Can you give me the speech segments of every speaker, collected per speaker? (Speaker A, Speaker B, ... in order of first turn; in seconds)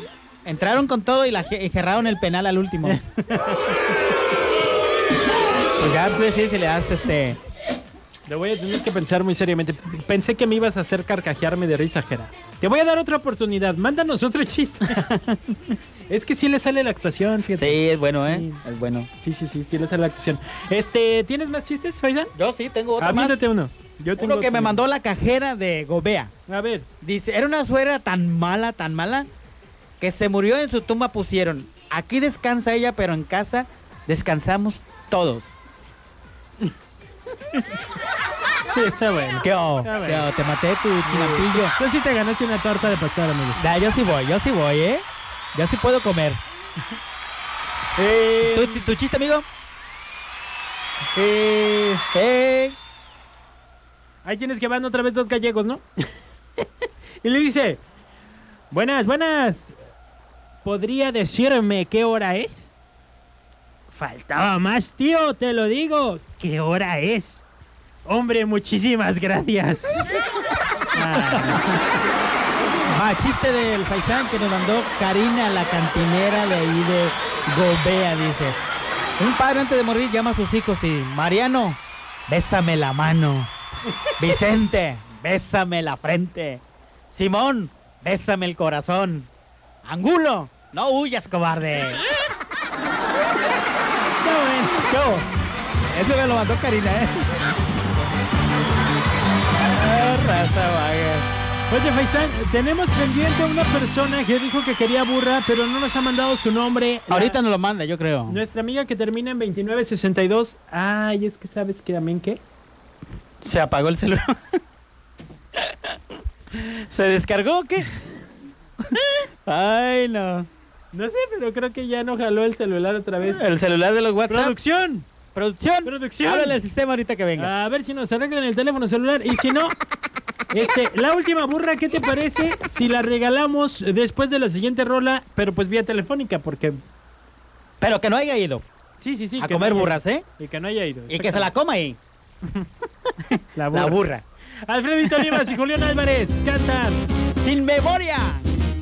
Speaker A: 0.5-3.0, 5.8-7.4, 15.0-15.7, 17.6-19.1, 22.4-23.4, 24.1-26.3, 27.0-29.3, 30.0-35.6, 39.4-41.8, 43.6-46.4, 48.4-49.5, 52.1-52.8, 71.0-71.6, 72.9-78.6, 79.2-83.5, 84.2-89.3, 89.8-92.0, 94.8-95.3, 95.9-97.3, 99.6-101.3, 107.1-108.4, 113.4-114.3, 116.5-117.9, 119.5-120.5, 123.2-124.6, 125.3-127.5, 137.8-138.6, 139.4-140.2, 141.1-142.0, 143.2-144.2, 145.1-145.5, 147.3-148.5
Speaker B: 2.8-3.5, 8.2-15.0, 16.1-18.6, 19.2-22.3, 23.0-24.8, 26.5-26.9, 38.7-40.3, 41.0-43.6, 48.0-48.9, 51.1-52.0, 54.2-55.9, 57.2-57.8, 58.7-59.8, 60.6-62.7, 63.9-67.5, 68.0-70.1, 70.9-71.7, 94.2-94.8, 101.7-107.4, 108.3-112.4, 120.9-123.5, 124.3-125.1, 125.8-126.6, 127.4-129.8, 130.5-136.8, 139.0-141.5, 143.6-144.0, 144.7-147.0